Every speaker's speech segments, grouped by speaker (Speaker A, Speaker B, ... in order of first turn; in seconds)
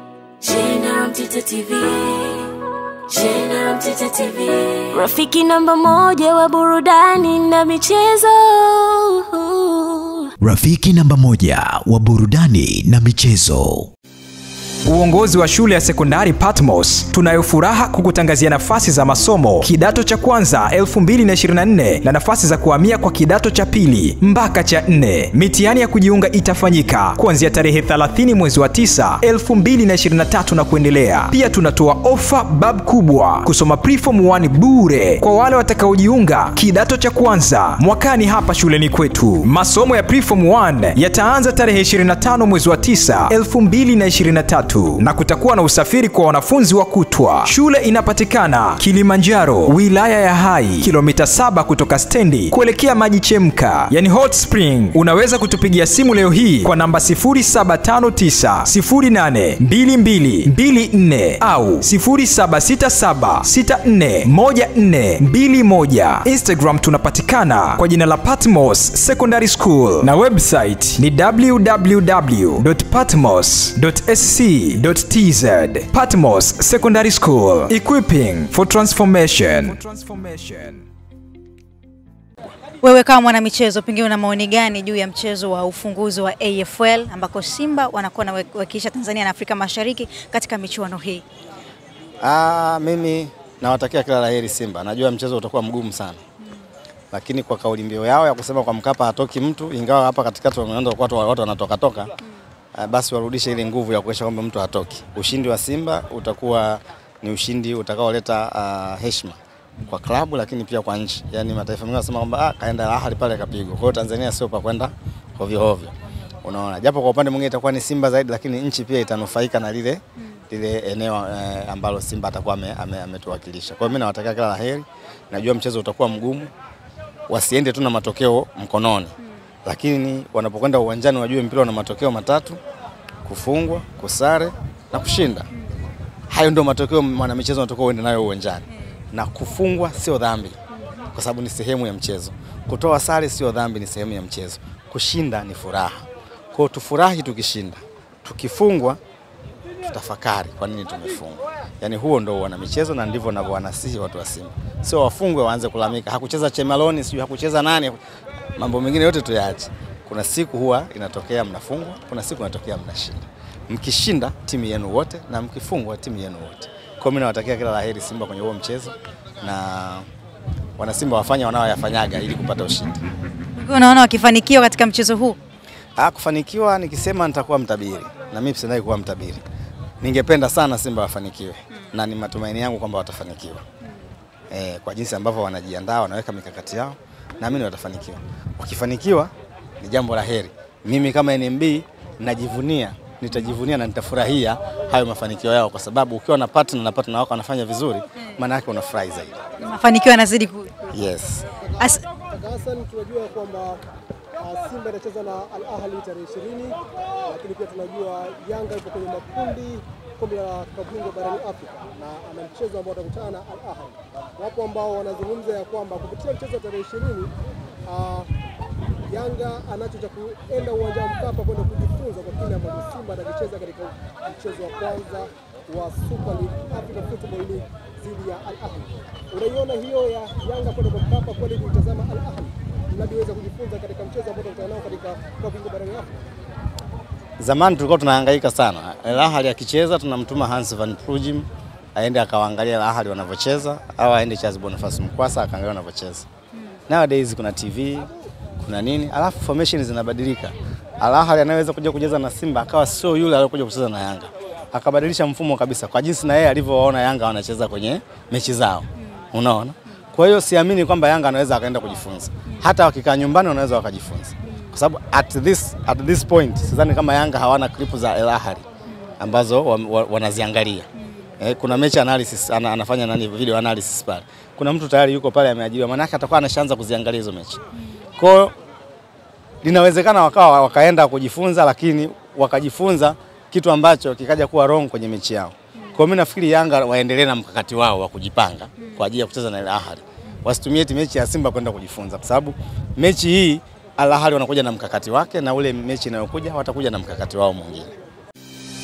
Speaker A: 0.4-2.5, 3.1-10.3
Speaker B: 10.4-13.9
Speaker C: 14.8-80.8
Speaker D: 82.8-91.2, 173.6-175.4, 199.6-200.8
Speaker E: 92.2-96.2, 97.1-102.1, 102.7-109.4, 109.9-126.5, 127.3-129.1, 129.6-132.6, 133.2-135.5, 136.3-140.6, 141.1-149.0, 149.8-158.0, 158.6-170.1, 170.8-173.0, 176.0-179.4, 180.0-183.6, 184.5-199.4, 200.9-201.4, 237.4-246.2, 246.9-248.1, 248.6-268.6, 269.2-270.9, 271.4-277.6, 278.2-278.5, 279.6-297.9
Speaker F: 202.3-203.7, 204.4-206.7, 207.3-217.3, 217.9-218.2, 219.1-236.1